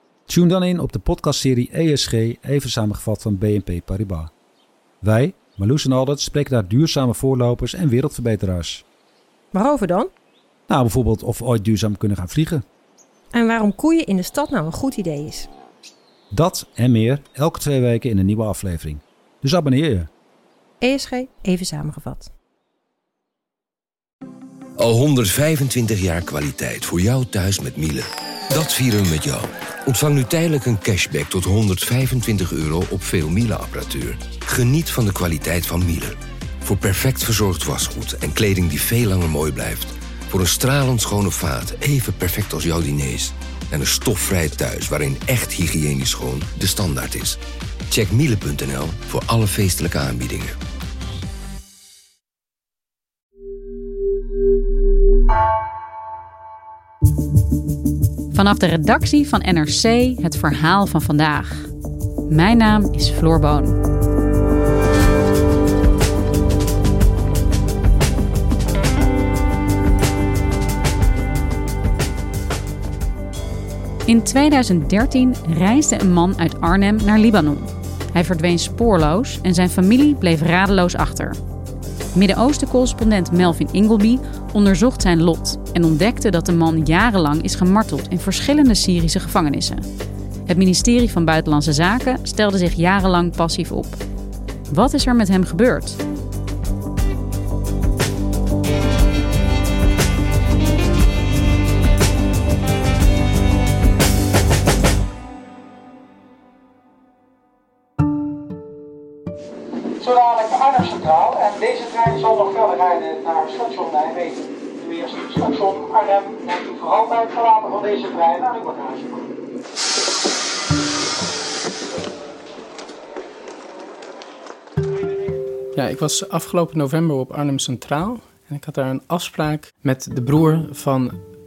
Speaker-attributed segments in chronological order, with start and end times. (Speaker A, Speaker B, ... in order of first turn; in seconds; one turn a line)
Speaker A: 0.3-4.3
Speaker A: 5.0-8.8
Speaker B: 9.5-10.1
Speaker A: 10.7-12.7
Speaker B: 13.3-15.5
Speaker A: 16.3-20.1
Speaker B: 20.8-22.3
Speaker C: 24.8-47.4
Speaker C: 47.9-50.5
Speaker D: 58.3-61.7
Speaker D: 62.3-63.8
Speaker D: 74.1-81.4
Speaker D: 82.1-89.8
Speaker D: 90.5-94.0
Speaker D: 94.7-96.0
Speaker E: 110.1-114.3
Speaker E: 114.9-119.0
Speaker F: 125.8-131.2